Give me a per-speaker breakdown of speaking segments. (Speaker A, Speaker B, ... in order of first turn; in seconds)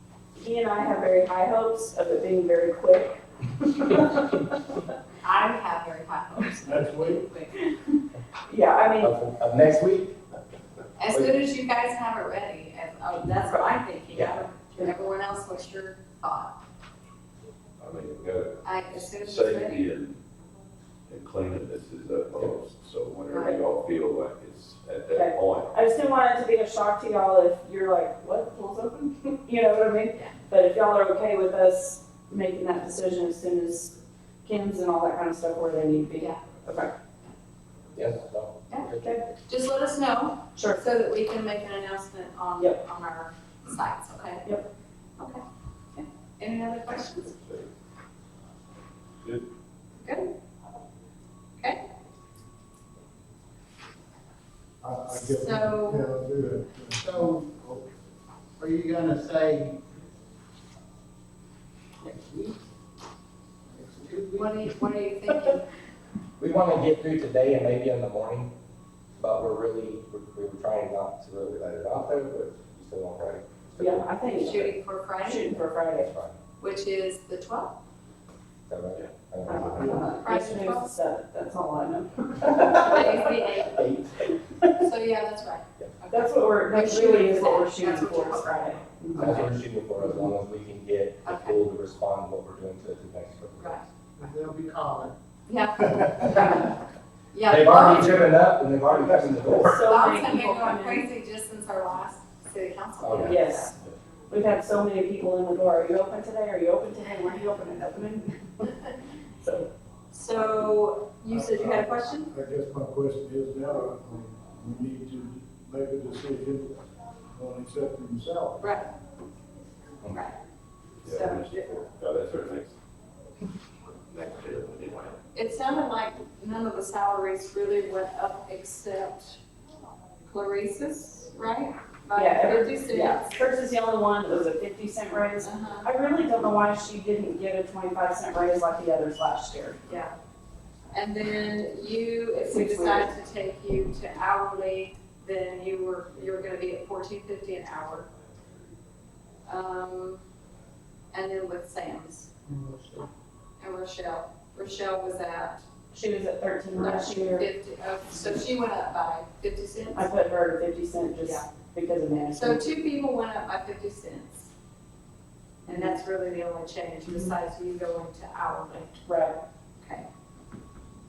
Speaker A: 0.4-4.4, 8.5-9.2, 25.1-33.9, 34.5-36.9, 39.0-39.3, 40.6-40.8, 73.8-74.7, 75.2-76.1, 79.5-83.3, 86.1-89.5, 99.6-101.1, 103.2-103.7, 104.3-108.8, 109.4-109.7, 132.2-139.8, 142.5-143.1, 155.9-157.5, 159.9-162.7, 165.7-166.0, 167.1-167.3, 169.1-169.4
Speaker B: 5.2-7.6, 11.0-16.6, 18.6-19.9, 23.3-23.6, 39.5-44.6, 45.2-45.4, 46.0-47.3, 50.0-50.3, 55.3-56.1, 64.3-65.6, 74.3-75.6, 76.6-77.8, 79.8-80.9, 82.7-83.8, 84.8-89.5, 91.2-91.6, 93.6-93.9, 95.5-96.7, 97.3-98.3, 99.7-103.7, 110.1-112.3, 118.6-118.9, 120.1-120.3, 121.1-121.7, 125.3-129.4, 130.3-133.4, 135.4-135.9, 139.9-140.1, 140.9-148.1, 149.5-150.2, 151.1-152.3, 153.6-155.6, 156.8-160.1, 162.3-164.5, 165.7-169.0
Speaker C: 6.7-7.3, 54.8-57.8, 111.3-116.8, 117.3-118.8
Speaker D: 9.0-10.2, 14.1-14.4, 38.0-39.1, 66.4-68.5, 69.2-74.7, 76.0-76.4, 78.7-80.0, 82.5-84.3, 89.2-93.8, 96.2-96.6, 97.5-99.8, 103.0-103.4
Speaker E: 17.8-20.2, 21.1-25.7, 47.4-47.7, 121.0-122.8, 124.1-125.2
Speaker F: 56.9-57.5, 58.6-59.8, 62.0-62.6, 63.7-64.7, 94.2-95.2, 152.5-153.1